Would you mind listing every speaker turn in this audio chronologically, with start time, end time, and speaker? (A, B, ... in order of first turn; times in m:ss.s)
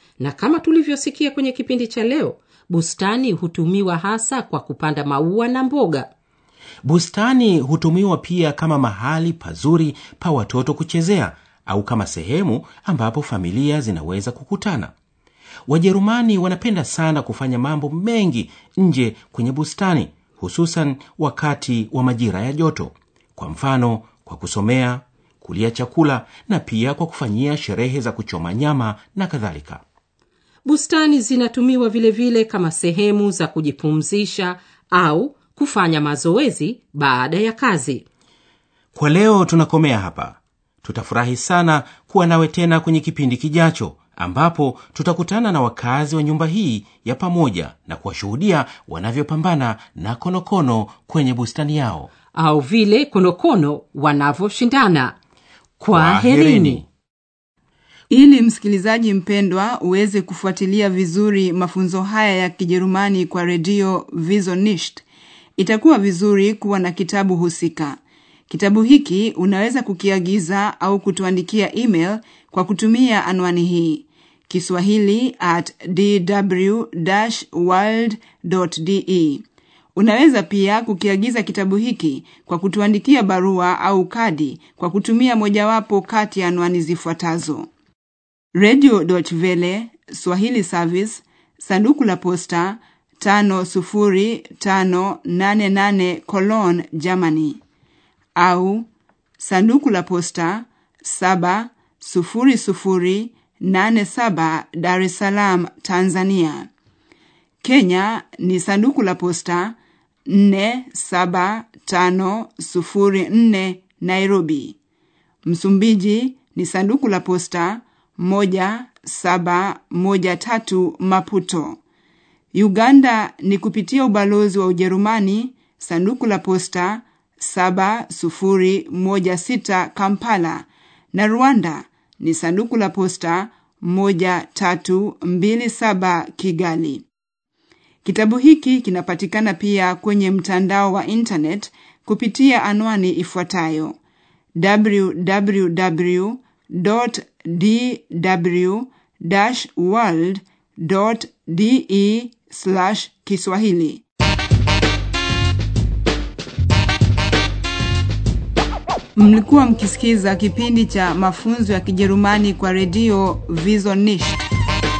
0:00.2-0:06.1 A
0:06.8-0:14.9 B
0:15.7-0:29.8 B
0:30.6-0:38.0 A
0:38.9-0:52.1 B
0:52.3-0:55.2 A
0:55.8-0:56.8 A
0:55.9-0:56.9 B
0:58.1-1:05.0 C
1:05.6-1:19.4 C
1:20.0-1:27.7 C
1:28.5-1:37.6 C
1:38.4-1:38.9 C
1:39.4-1:46.7 C
1:47.6-1:49.8 C
1:50.3-1:54.8 C
1:55.4-2:01.8 C
2:02.5-2:17.0 C
2:18.0-2:24.0 C
2:24.6-2:34.0 C
2:39.2-2:44.5 C